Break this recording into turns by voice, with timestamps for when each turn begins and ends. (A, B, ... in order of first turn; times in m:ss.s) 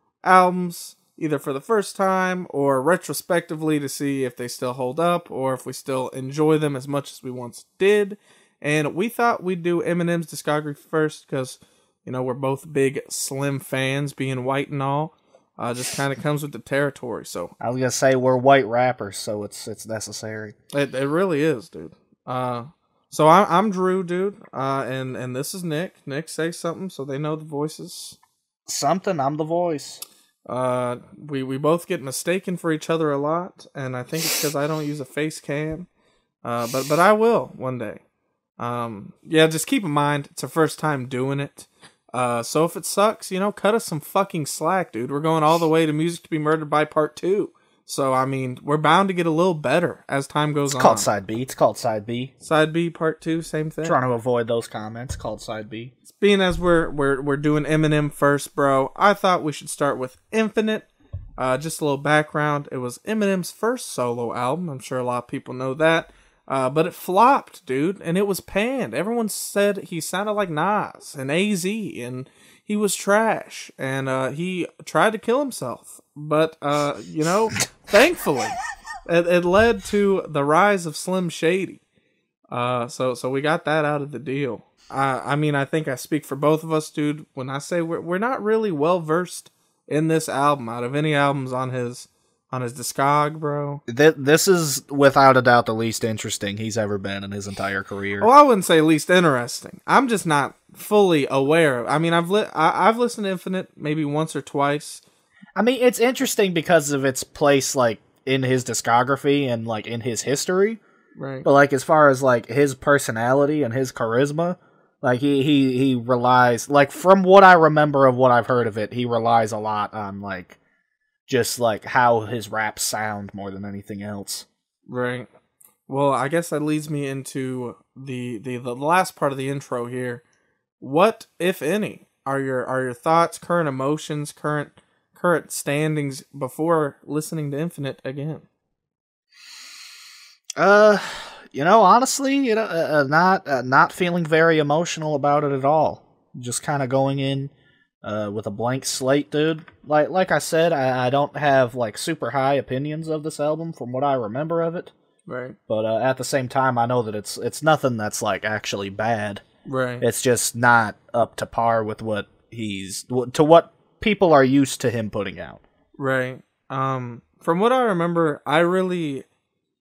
0:00.2-0:17.5 A
0:17.6-0:20.5 B
0:20.7-0:28.2 A
0:28.7-0:30.0 B
0:30.4-0:35.9 A
0:36.4-0:38.0 A
0:38.6-0:51.1 A
0:50.7-0:52.3 B
0:52.4-0:54.0 A
0:53.8-0:55.9 B
0:56.1-1:21.8 A
1:22.5-1:33.8 A
1:33.9-1:38.3 B
1:38.2-1:45.0 A
1:45.6-1:50.8 B
1:51.2-1:51.4 A
1:51.4-2:00.6 B
2:01.3-2:04.4 B
2:04.9-2:05.3 A
2:05.9-2:10.2 A
2:10.8-2:18.4 A
2:20.6-2:27.5 B
2:28.0-2:34.9 B
2:35.2-2:35.6 A
2:35.7-2:39.4 B
2:39.6-2:40.0 A
2:40.0-2:45.6 B
2:46.0-2:49.2 A